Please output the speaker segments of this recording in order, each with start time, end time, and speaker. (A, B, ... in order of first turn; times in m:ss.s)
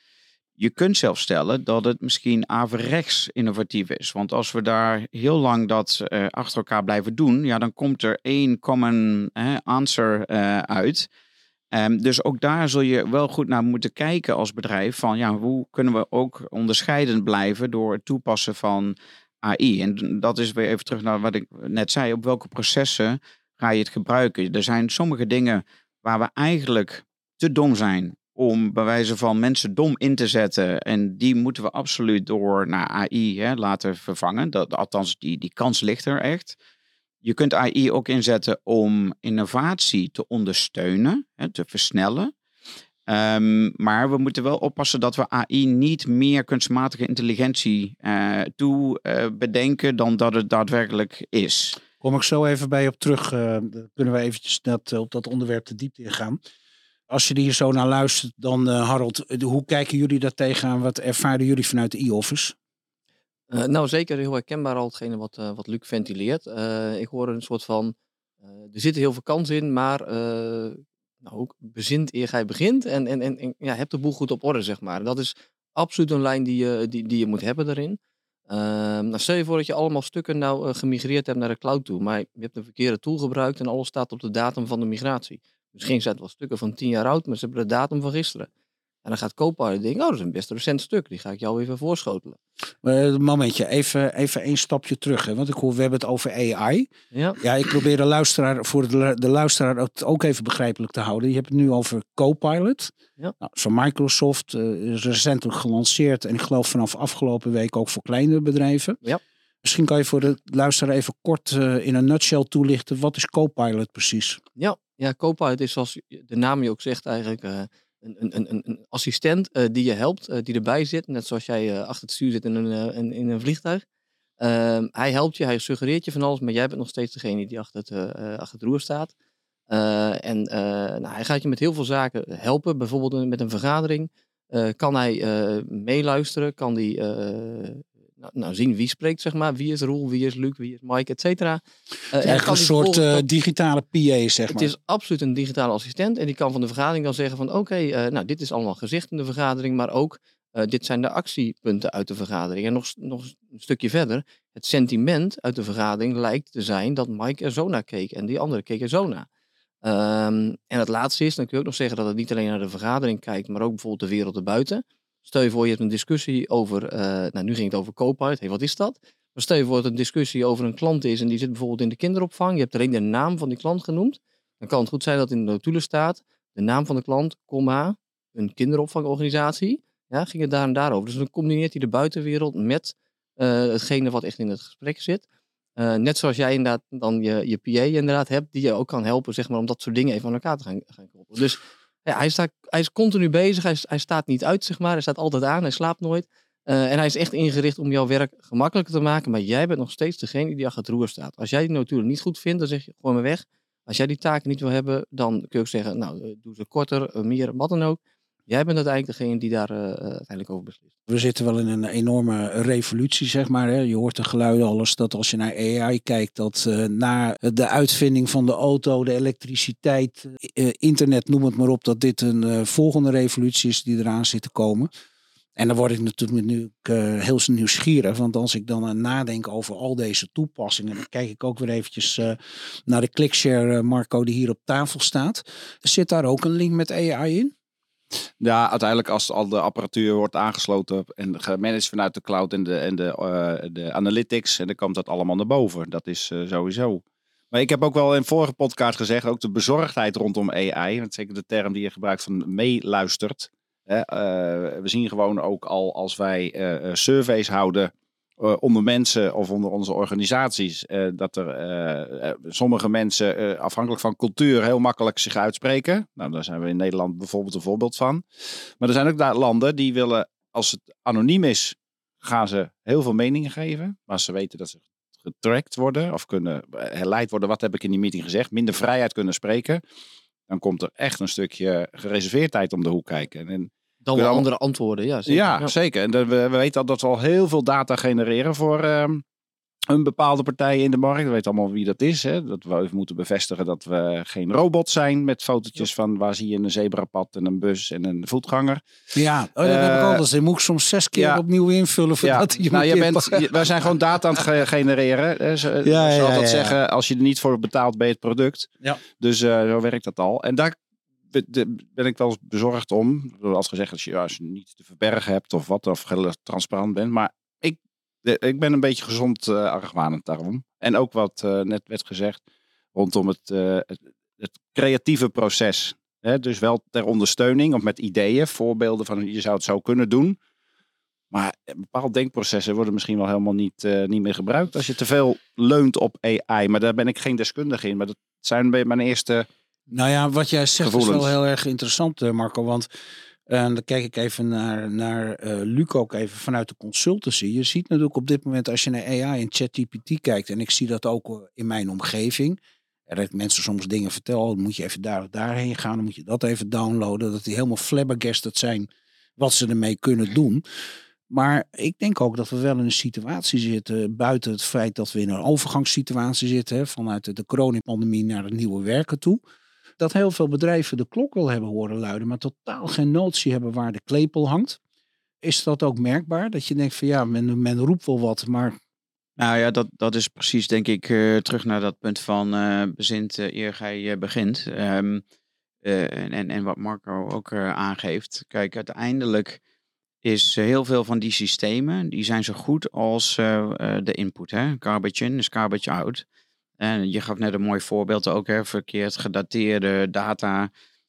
0:00.6-0:11.1 A
0:11.7-0:36.6 A
0:37.2-0:42.3 A
0:43.1-0:51.8 A
0:52.0-0:56.4 B
0:57.1-1:02.5 B
1:03.5-1:07.9 C
1:08.5-1:28.5 C
1:29.0-1:32.4 C
1:32.8-1:49.0 B
1:37.1-1:37.4 C
1:49.6-1:54.4 B
1:54.6-2:03.8 C
2:04.4-2:09.1 C
2:09.7-2:23.2 C
2:22.2-2:24.7 B
2:24.5-2:39.3 C
2:39.8-3:05.2 C
3:05.8-3:30.8 C
3:31.1-3:44.9 B
3:45.6-3:57.5 B
3:58.4-4:28.2 D
4:28.8-4:39.8 D
4:40.5-4:44.4 D
4:44.0-4:45.7 C
4:45.3-4:49.2 D
4:49.9-4:58.8 D
4:59.1-5:03.7 B
4:59.6-5:00.2 D
5:01.2-5:01.4 D
5:02.2-5:10.8 D
5:05.8-5:06.8 B
5:11.3-5:22.4 D
5:22.9-5:30.4 D
5:31.3-5:39.5 D
5:39.9-5:42.9 B
5:40.8-5:41.3 D
5:43.5-6:00.6 B
6:01.3-6:09.4 B
6:10.0-6:14.8 B
6:15.4-6:18.8 B
6:19.4-6:25.2 A
6:25.8-6:29.6 A
6:30.2-6:36.2 A
6:36.8-6:40.7 A